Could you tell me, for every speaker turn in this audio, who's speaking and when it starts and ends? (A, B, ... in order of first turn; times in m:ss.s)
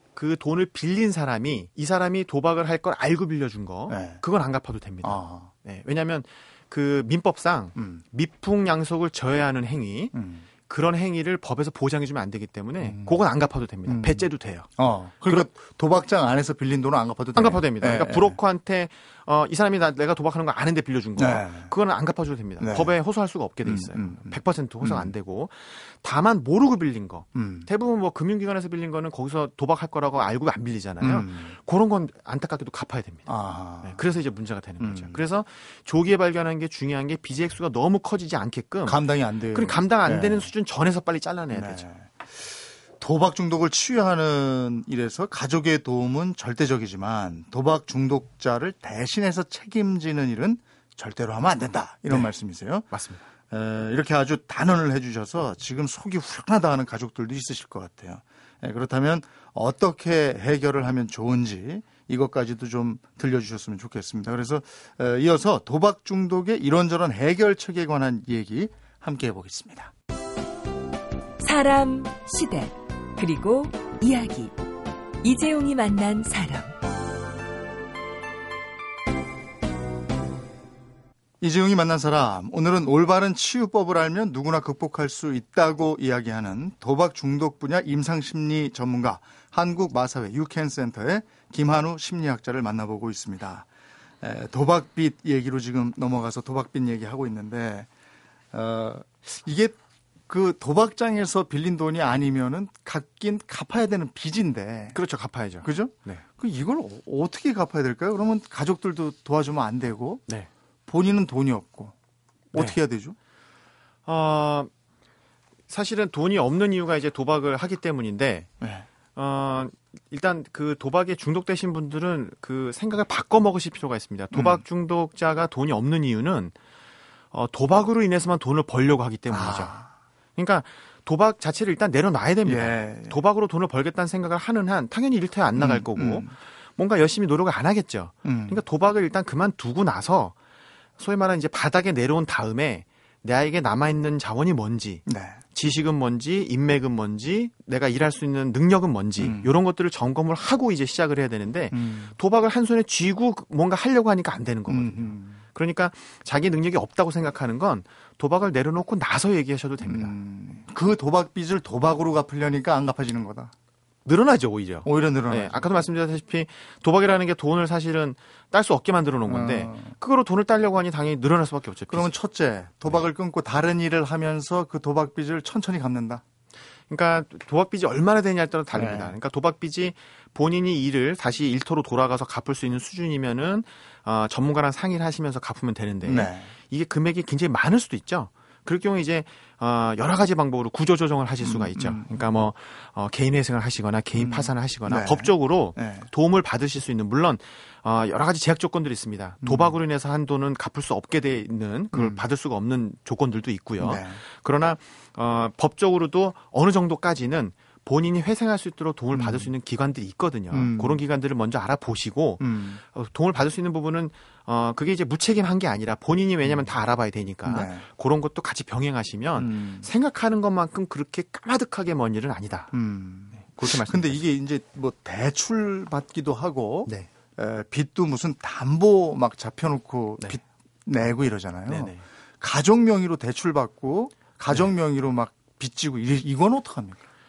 0:00.1-0:10.1 A
0:03.9-0:04.2 B
0:05.0-0:05.5 B
0:07.8-0:08.0 B
0:10.1-0:10.4 B
0:10.6-0:14.7 A
0:12.8-0:13.2 B
0:13.8-0:18.4 B
0:17.3-0:33.3 A
0:21.2-0:21.7 B
0:22.6-0:22.9 B
0:23.6-0:25.1 B
0:27.3-0:27.7 B
0:31.0-0:31.5 B
0:33.3-0:34.0 B
0:33.8-0:39.0 A
0:34.8-0:35.2 B
0:38.8-0:40.5 B
0:39.5-0:41.8 A
0:41.5-0:52.9 B
0:52.9-0:53.2 A
0:53.5-1:09.9 B
1:11.4-1:14.6 C
1:15.2-1:16.7 C
1:21.4-1:33.7 B
1:34.2-1:37.9 B
1:38.5-1:39.8 B
1:40.3-1:45.0 B
1:44.9-1:46.2 A
1:45.6-1:50.2 B
1:50.9-1:51.9 B
1:52.5-1:53.2 B
1:52.5-1:52.8 A
1:54.0-1:54.7 A
1:55.7-1:58.5 A
1:58.6-1:58.9 B
1:59.1-2:06.5 A
2:04.3-2:04.6 B
2:07.3-2:09.7 A
2:09.3-2:09.9 B
2:10.4-2:20.3 A
2:12.4-2:13.2 B
2:15.5-2:16.3 B
2:18.2-2:18.6 B
2:21.0-2:40.1 A
2:25.1-2:25.4 B
2:29.2-2:29.5 B
2:31.7-2:32.2 B
2:34.7-2:35.4 B
2:39.8-2:43.5 B
2:44.0-2:52.1 A
2:44.8-2:45.7 B
2:49.2-2:49.9 B
2:51.9-2:56.2 B
2:56.9-3:42.7 A
2:58.7-2:59.1 B
3:06.0-3:06.5 B
3:11.4-3:12.2 B
3:14.2-3:16.1 B
3:19.4-3:19.7 B
3:21.9-3:22.2 B
3:23.8-3:24.2 B
3:29.1-3:29.5 B
3:30.5-3:31.0 B
3:32.4-3:32.8 B
3:37.4-3:37.8 B
3:39.4-3:39.9 B
3:42.7-3:57.0 B
3:43.3-3:44.2 A
3:51.7-3:52.0 A